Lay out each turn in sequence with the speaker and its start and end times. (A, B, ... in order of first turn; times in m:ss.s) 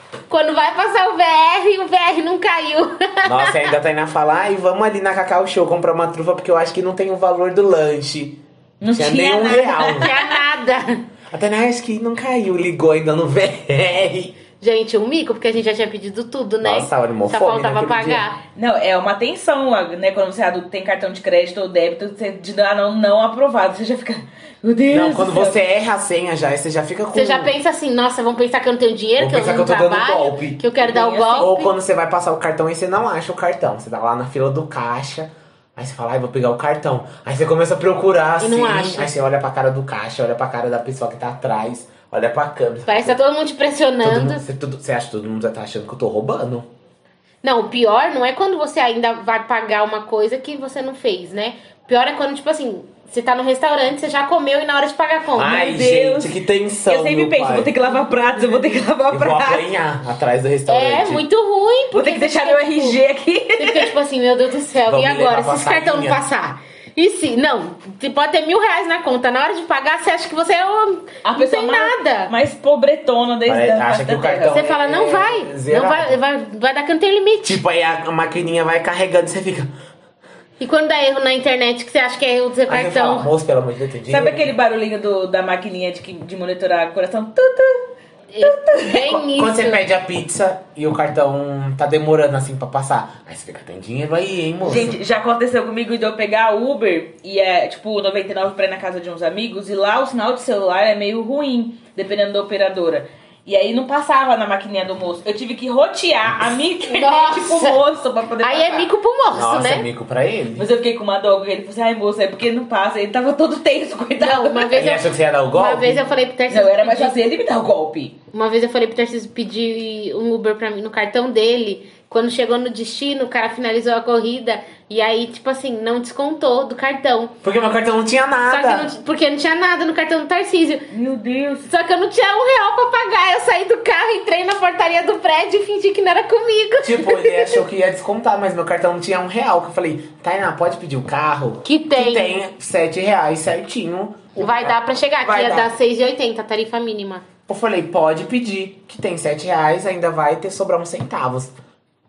0:00.3-0:03.7 A
0:03.2-0:10.1 B
0:08.8-0:10.3 C
0:10.0-0:11.1 A
0:11.3-0:14.4 B
0:14.6-0:18.4 A
0:16.6-0:18.2 B
0:18.6-0:25.6 C
0:24.9-0:27.5 B
0:27.1-0:31.7 A
0:29.2-0:30.6 B
0:30.8-0:31.5 C
0:31.4-0:43.2 B
0:38.4-0:39.1 A
0:42.9-0:44.4 A
0:44.0-0:46.7 B
0:47.4-0:55.8 A
0:55.4-0:57.7 B
0:55.6-0:56.4 C
0:56.9-0:59.7 C
0:59.1-1:01.2 B
1:00.7-1:03.0 A
1:01.9-1:03.9 C
1:03.6-1:12.3 A
1:04.9-1:06.2 B
1:11.2-1:14.6 C
1:13.5-1:16.2 B
1:14.5-1:17.6 A
1:17.4-1:19.7 B
1:20.6-1:23.3 A
1:22.7-1:24.5 B
1:24.1-1:27.9 C
1:28.3-1:29.8 A
1:28.4-1:29.1 C
1:29.0-1:35.0 B
1:34.6-1:48.9 C
1:46.8-1:47.8 A
1:48.4-1:49.9 A
1:49.3-1:50.7 B
1:50.6-1:54.8 C
1:54.2-1:57.2 A
1:54.7-1:56.0 B
1:56.5-1:58.2 C
1:58.3-2:07.3 A
2:07.4-2:08.9 B
2:08.5-2:10.9 A
2:10.9-2:11.7 C
2:11.7-2:17.6 A
2:16.8-2:25.7 B
2:21.6-2:22.4 A
2:24.4-2:27.2 A
2:27.5-2:31.5 B